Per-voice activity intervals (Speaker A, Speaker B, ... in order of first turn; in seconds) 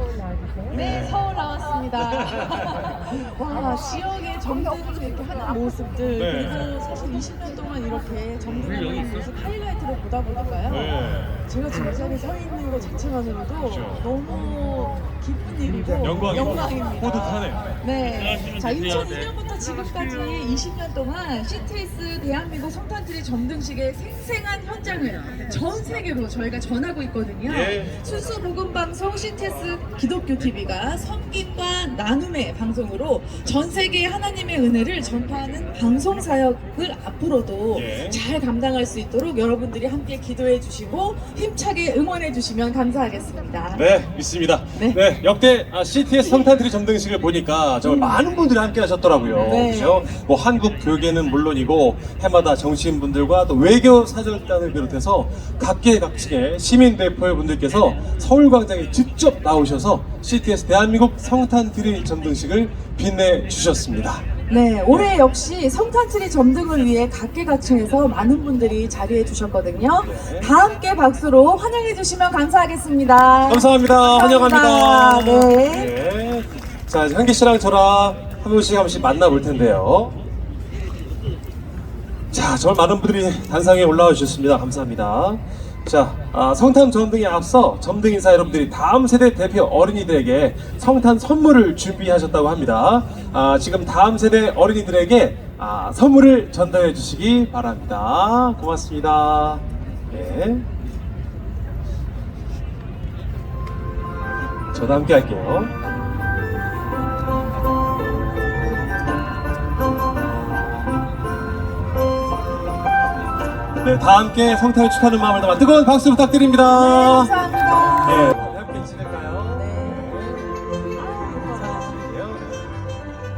Speaker A: 0.7-1.2, 6.2-6.7, 10.7-11.4, 13.7-14.0, 16.0-17.7, 27.4-27.9, 37.7-38.2, 43.7-64.2, 70.0-70.5, 73.5-80.2, 82.3-100.6, 104.7-105.7, 113.8-117.3, 118.0-122.4
Speaker B: 0.7-10.9, 11.5-43.8, 44.7-45.0, 46.2-46.5, 47.8-48.2, 49.4-50.1, 64.5-75.9, 116.7-118.4, 119.5-120.3, 121.0-121.9